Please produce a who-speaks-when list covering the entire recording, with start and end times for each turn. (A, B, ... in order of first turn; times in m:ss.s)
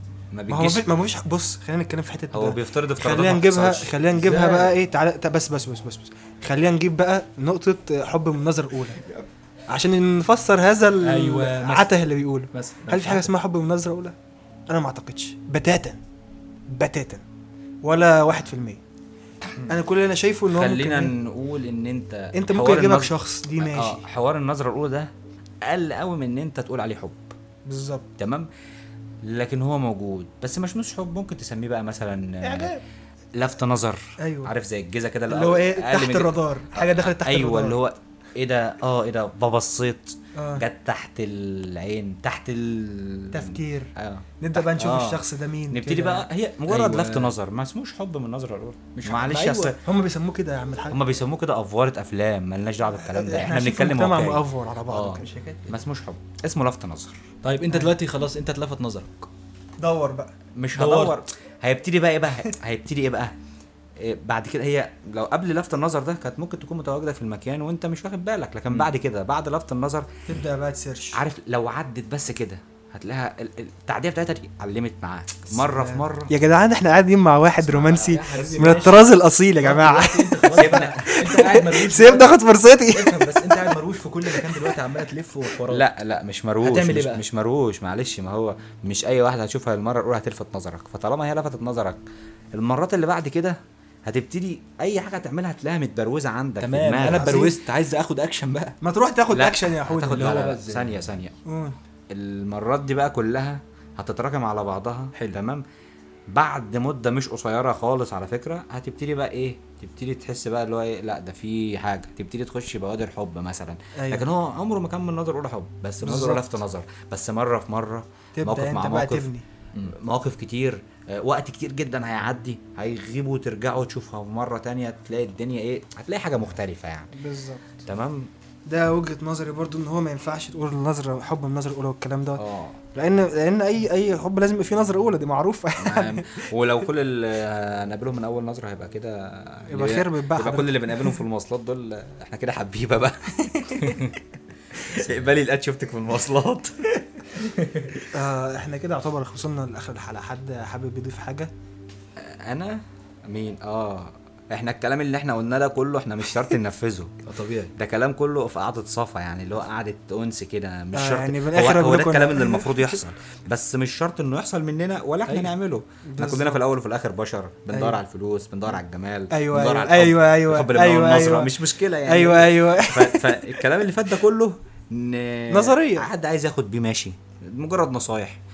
0:00.3-0:00.9 A
0:00.5-0:09.0 B
0:02.3-0:03.9 A
0:04.1-0:04.7 C
0:09.7-0:14.1 B
0:11.0-0:11.9 C
0:12.5-0:13.3 C
0:14.7-0:16.0 B
0:16.7-0:17.2 B
0:17.8-0:18.8 B
0:19.7-0:21.1 B
0:20.5-0:25.1 A
0:22.3-0:24.0 B
0:25.6-0:27.3 A
0:27.6-0:28.1 B
0:28.2-0:28.5 A
0:29.2-0:32.7 A
0:32.4-0:32.8 B
0:33.3-0:49.8 A
0:34.2-0:34.5 B
0:35.3-0:37.8 B
0:40.4-0:40.6 B
0:43.3-0:46.3 B
0:46.7-0:47.3 C
0:49.0-0:49.7 C
0:49.7-0:51.0 B
0:50.9-0:57.2 A
0:53.0-0:55.2 B
0:55.1-0:55.7 C
0:57.4-0:59.3 C
0:59.8-1:00.3 B
1:00.6-1:03.3 A
1:00.7-1:01.2 C
1:04.0-1:10.1 A
1:10.3-1:11.2 B
1:11.1-1:16.3 A
1:15.6-1:23.7 B
1:17.6-1:25.9 C
1:20.6-1:21.0 A
1:24.2-1:24.7 B
1:25.7-1:32.0 A
1:26.6-1:27.2 C
1:32.5-1:37.4 A
1:36.6-1:38.8 C
1:37.0-1:37.5 B
1:38.8-1:40.3 B
1:39.3-1:41.4 A
1:40.1-1:41.0 C
1:41.4-1:41.8 B
1:42.1-1:45.6 A
1:46.3-1:59.3 A
1:54.0-1:54.3 B
1:56.0-1:56.4 B
1:56.1-1:56.4 C
1:58.3-1:59.4 B
1:59.8-2:07.1 A
2:07.1-2:07.7 B
2:07.8-2:08.3 A
2:08.6-2:12.4 B
2:12.4-2:12.8 A
2:12.9-2:16.5 B
2:15.8-2:23.9 A
2:19.7-2:21.1 B
2:23.5-2:24.0 B
2:24.8-2:26.9 A
2:27.4-2:28.0 C
2:28.1-2:31.5 B
2:32.2-2:37.2 A
2:37.2-2:37.7 C
2:37.7-2:58.4 A
2:40.9-2:42.7 B
2:45.3-2:45.5 C
2:46.0-2:46.6 B
2:47.7-2:48.0 B
2:49.3-2:51.5 B
2:52.0-2:53.6 B
2:55.5-2:56.1 B